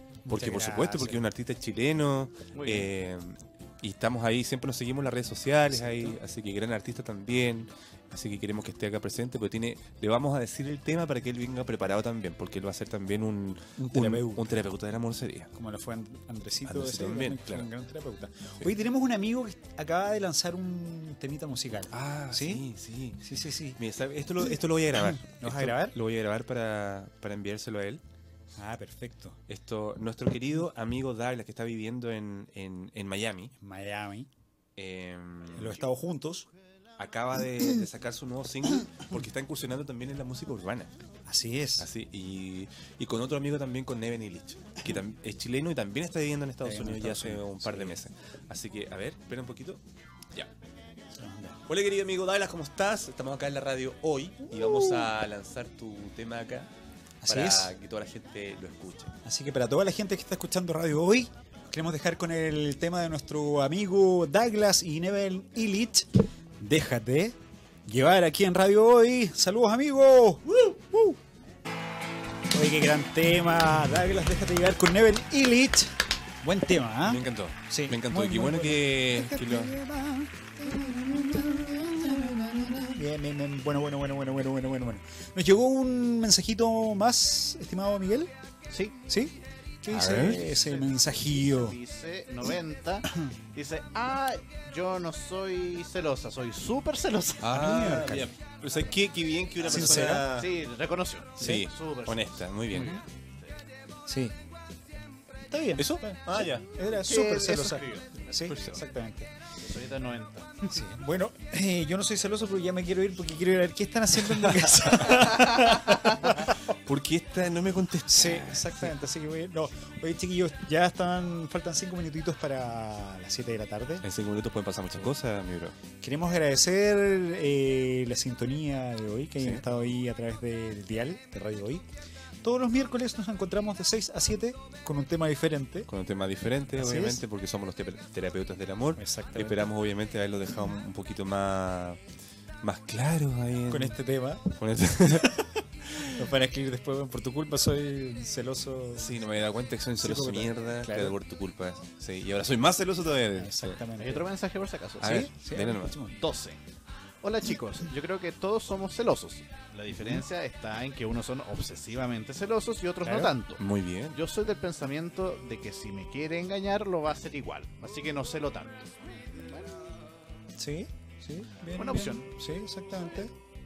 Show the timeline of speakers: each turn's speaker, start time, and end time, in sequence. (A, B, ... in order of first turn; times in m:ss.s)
0:00.2-0:01.2 A
0:00.3-0:15.5 B
0:02.5-0:02.9 C
0:05.7-0:06.2 A
0:13.8-0:14.6 A
0:15.5-0:22.7 A
0:16.7-0:17.7 B
0:21.9-0:23.2 B
0:23.2-0:23.8 A
0:23.8-0:28.0 B
0:25.0-0:26.0 A
0:28.6-0:29.4 A
0:29.5-0:33.5 B
0:33.6-0:34.3 A
0:34.8-0:35.8 B
0:35.5-0:36.5 A
0:37.0-0:40.9 B
0:41.3-0:41.9 A
0:41.8-0:49.8 B
0:46.6-0:48.0 A
0:51.1-0:51.6 A
0:51.7-0:56.7 B
0:54.5-0:55.1 A
0:57.2-0:57.7 A
0:57.2-0:59.1 B
0:59.2-1:11.2 A
1:12.5-1:28.3 A
1:17.0-1:19.7 B
1:28.7-1:29.0 C
1:29.1-1:31.8 A
1:29.9-1:30.5 B
1:30.2-1:37.6 C
1:37.4-1:40.5 B
1:37.5-1:38.3 A
1:39.6-1:40.3 A
1:39.7-1:43.3 C
1:41.4-1:43.0 B
1:42.7-1:43.0 A
1:44.1-1:44.4 A
1:45.5-1:49.3 A
1:45.8-1:46.7 B
1:46.9-1:48.3 C
1:48.4-1:48.8 B
1:49.6-1:50.8 C
1:50.7-1:56.6 A
1:54.6-1:55.2 B
1:55.1-1:55.8 C
1:55.9-1:58.9 B
1:58.1-2:04.0 A
2:04.0-2:05.8 B
2:06.0-2:11.8 A
2:12.4-2:15.9 A
2:15.9-2:22.0 B
2:16.8-2:17.2 A
2:19.0-2:19.7 A
2:22.6-2:24.0 B
2:23.7-2:24.6 A
2:24.5-2:25.3 B
2:25.1-2:29.2 A
2:25.9-2:26.2 B
2:29.0-2:33.8 B
2:30.0-2:31.2 A
2:33.4-2:34.3 A
2:34.0-2:35.2 C
2:35.0-2:36.0 B
2:35.0-2:36.2 A
2:36.2-2:36.6 C
2:37.2-2:50.1 C
2:43.0-2:43.3 A
2:43.6-2:44.2 B
2:50.6-2:53.3 A
2:51.8-2:52.2 C